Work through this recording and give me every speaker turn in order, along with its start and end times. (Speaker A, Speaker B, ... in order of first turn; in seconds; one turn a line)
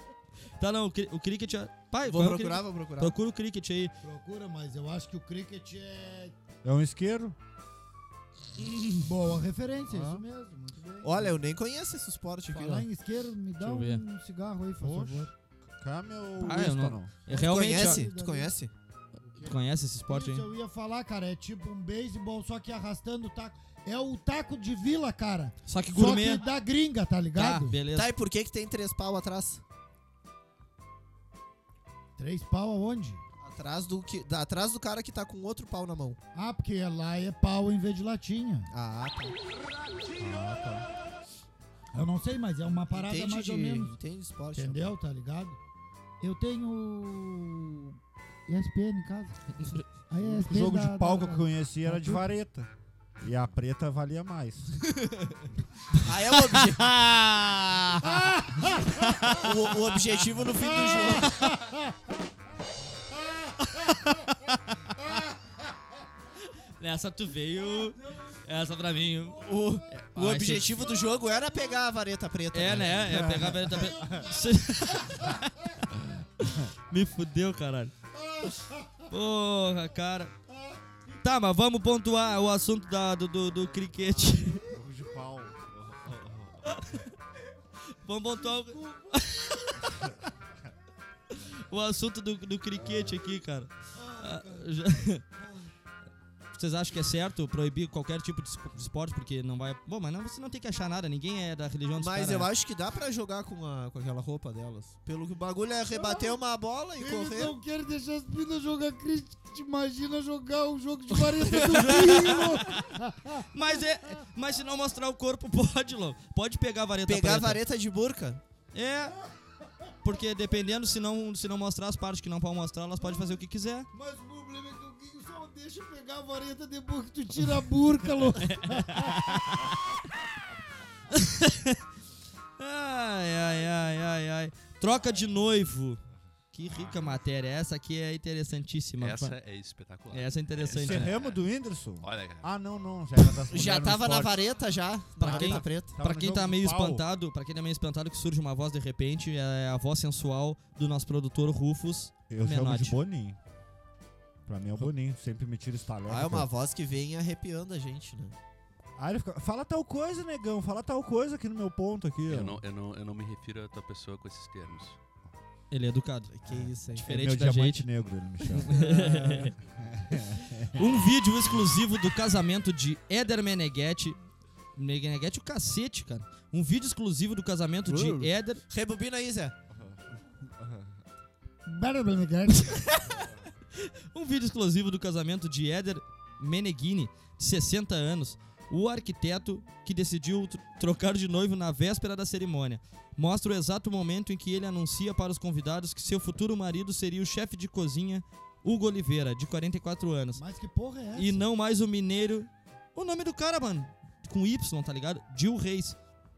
Speaker A: 0.6-3.9
Speaker B: 2.0-3.1
Speaker C: 4.0-6.3
Speaker D: 6.6-7.3
Speaker C: 9.0-11.3
Speaker D: 9.9-10.2
Speaker B: 11.0-12.8
Speaker C: 12.5-15.3
Speaker A: 13.6-14.0
Speaker D: 14.8-17.1
Speaker A: 16.4-18.0
Speaker B: 17.3-18.7
Speaker C: 17.3-18.5
Speaker C: 19.3-27.8
Speaker A: 19.4-20.4
Speaker A: 25.6-26.4
Speaker A: 27.3-28.1
Speaker B: 27.9-29.6
Speaker C: 32.2-33.2
Speaker B: 33.4-36.2
Speaker C: 36.3-38.7
Speaker B: 38.7-39.4
Speaker D: 40.2-40.9
Speaker C: 41.9-44.0
Speaker B: 42.9-44.9
Speaker C: 44.5-45.6
Speaker C: 46.2-48.0
Speaker C: 48.5-52.2
Speaker D: 50.2-52.7
Speaker D: 53.2-54.7
Speaker B: 54.9-55.3
Speaker B: 56.0-57.0
Speaker A: 56.5-58.1
Speaker C: 58.2-58.8
Speaker A: 59.0-59.4
Speaker B: 59.3-61.3
Speaker C: 60.8-61.9
Speaker A: 63.7-64.8
Speaker A: 66.8-70.9
Speaker B: 69.4-73.1
Speaker A: 72.5-77.9
Speaker D: 73.0-74.2
Speaker A: 79.1-80.3
Speaker A: 81.2-84.6
Speaker D: 84.7-86.9
Speaker A: 86.7-87.0
Speaker A: 87.9-90.1
Speaker A: 91.3-95.2
Speaker C: 94.0-94.8
Speaker A: 96.5-102.5
Speaker B: 102.0-107.5
Speaker C: 105.9-106.3
Speaker C: 107.0-113.5
Speaker A: 111.5-112.9
Speaker A: 113.5-117.6
Speaker B: 117.0-118.4
Speaker A: 118.7-119.1
Speaker A: 120.0-123.9
Speaker C: 123.9-129.4
Speaker A: 128.4-129.8
Speaker A: 131.1-131.8
Speaker A: 132.6-136.0
Speaker A: 136.5-139.3
Speaker E: 139.0-141.4
Speaker A: 140.1-141.1
Speaker D: 140.7-144.4
Speaker E: 142.0-142.5
Speaker B: 143.5-145.9
Speaker A: 145.2-153.0
Speaker D: 145.2-147.0
Speaker D: 152.3-153.4
Speaker D: 154.4-156.5
Speaker B: 156.1-158.3
Speaker D: 159.0-162.6
Speaker E: 162.3-165.0
Speaker A: 165.7-166.3
Speaker B: 166.3-167.1
Speaker A: 166.9-167.8
Speaker D: 167.0-168.8
Speaker A: 168.5-169.5
Speaker B: 168.7-169.3
Speaker D: 169.4-171.0
Speaker A: 170.7-174.2
Speaker A: 174.8-178.6
Speaker B: 177.8-179.5
Speaker D: 179.7-180.0
Speaker D: 180.5-180.9
Speaker C: 181.7-182.8
Speaker A: 182.6-200.4
Speaker C: 200.3-201.4
Speaker A: 201.2-205.9